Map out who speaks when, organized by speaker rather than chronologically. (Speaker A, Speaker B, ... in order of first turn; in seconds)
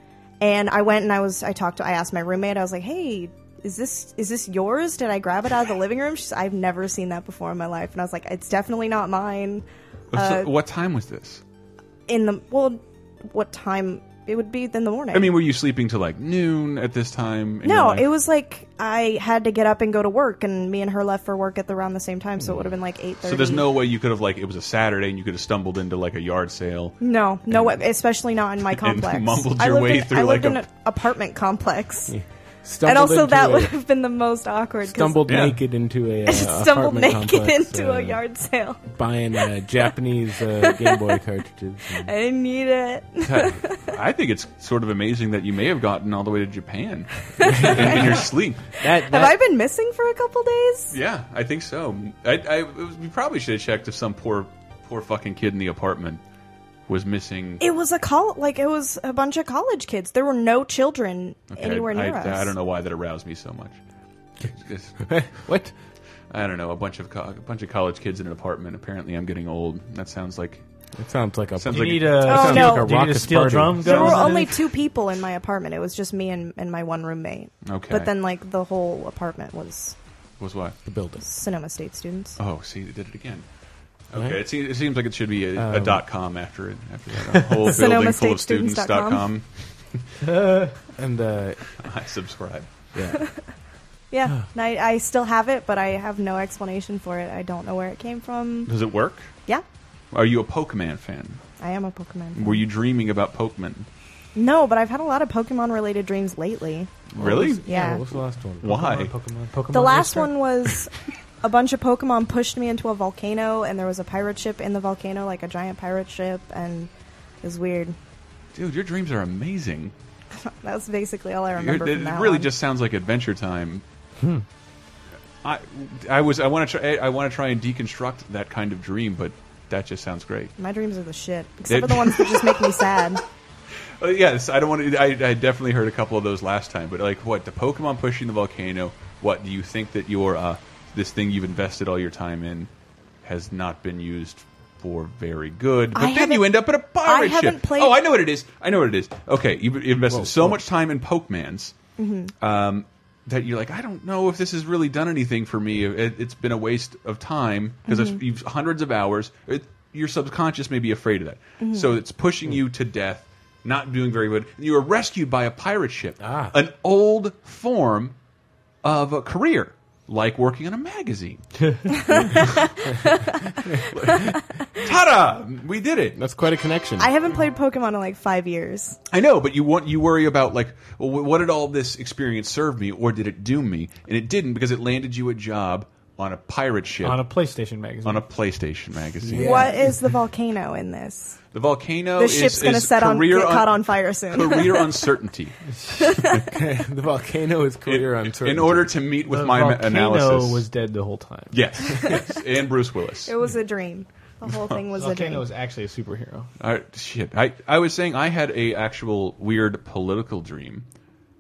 Speaker A: 0.4-10.5, 12.1-15.3, 17.6-23.7, 27.0-32.1, 32.9-35.3, 36.3-38.8, 40.6-41.2, 42.0-43.9, 47.4-48.1, 48.9-51.0, 57.6-62.5, 72.2-73.0, 73.8-80.0, 81.2-82.4, 87.7-89.3, 94.1-98.7, 101.6-102.6, 104.3-106.9, 107.7-108.0, 109.7-110.9, 111.4-116.9, 117.4-118.0, 120.4-122.5, 130.6-133.2, 145.9-148.0, 152.0-152.3, 157.9-158.2, 161.6-162.0, 171.9-173.4, 177.0-179.0, 189.4-191.4, 192.2-195.0, 196.0-196.5, 203.3-205.4
Speaker B: 10.1-11.4, 15.1-18.1, 23.2-27.0, 27.5-27.8, 28.7-30.6, 35.3-35.6, 43.3-48.7, 50.9-56.2, 56.9-57.6, 61.5-63.8, 64.5-65.1, 66.3-70.6, 71.6-72.2, 73.9-74.3, 77.7-78.1, 80.4-80.8, 82.4-83.4, 84.1-90.0, 91.8-92.7, 98.7-99.3, 100.1-101.4, 102.3-103.9, 107.1-107.6, 108.6-109.1, 118.5-119.9, 121.6-123.8, 125.4-130.5, 131.7-133.0, 134.0-142.7, 143.2-151.8, 152.4-168.2, 168.8-171.5, 172.2-172.6, 173.8-176.2, 179.1-187.2, 188.0-189.7, 191.5-195.6, 197.9-200.7, 201.5-203.3, 206.6-210.9
Speaker C: 22.4-22.7, 32.1-33.7, 34.9-38.2, 38.9-42.1, 47.4-48.3, 48.8-49.4, 65.1-65.7, 71.0-74.2, 80.8-81.2, 84.1-84.4, 85.5-86.0, 91.0-91.7, 93.0-93.2, 107.2-108.8, 150.1-150.6, 166.2-166.5, 176.2-177.1, 189.2-189.9, 196.5-198.9
Speaker D: 71.7-74.6, 90.3-90.7, 108.6-110.4, 124.2-124.5, 187.0-188.2, 199.3-201.6, 205.0-206.5